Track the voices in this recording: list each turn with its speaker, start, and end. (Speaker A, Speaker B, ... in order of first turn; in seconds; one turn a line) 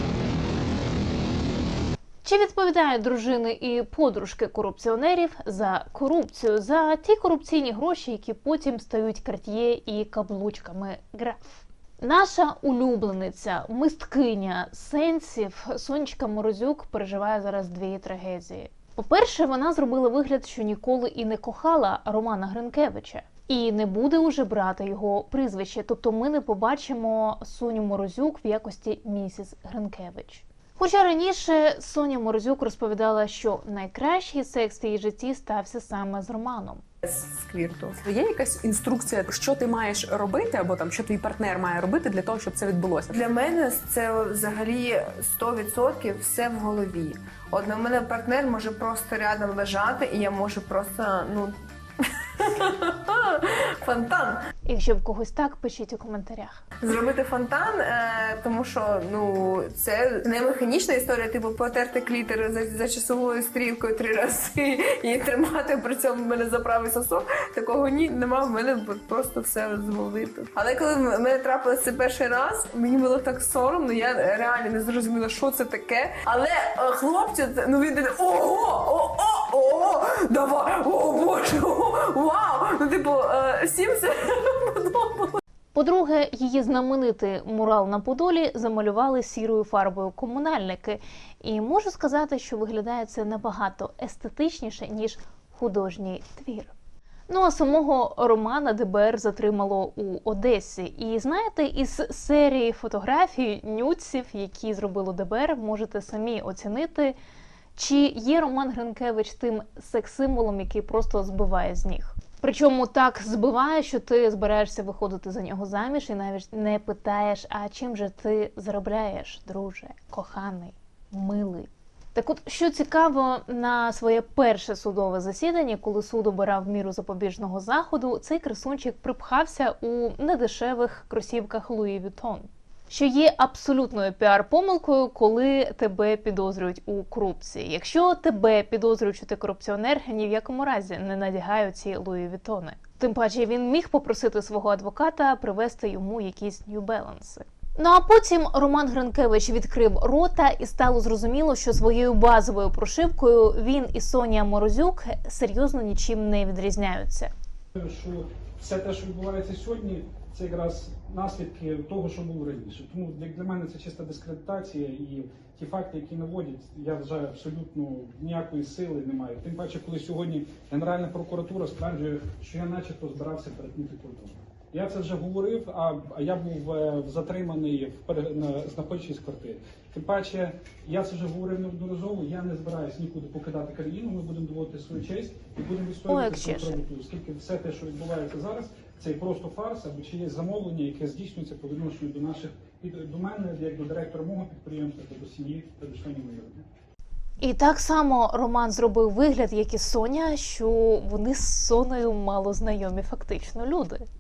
Speaker A: 2.2-36.8
Speaker B: 37.1-38.0
Speaker C: 38.0-43.2
Speaker B: 43.1-51.6
Speaker B: 52.4-54.4
Speaker A: 54.7-56.6
Speaker B: 56.8-85.4
Speaker A: 85.8-96.7
Speaker A: 97.3-107.2
Speaker A: 107.8-157.3
Speaker D: 157.8-196.7
Speaker A: 186.1-186.8
Speaker A: 197.4-204.1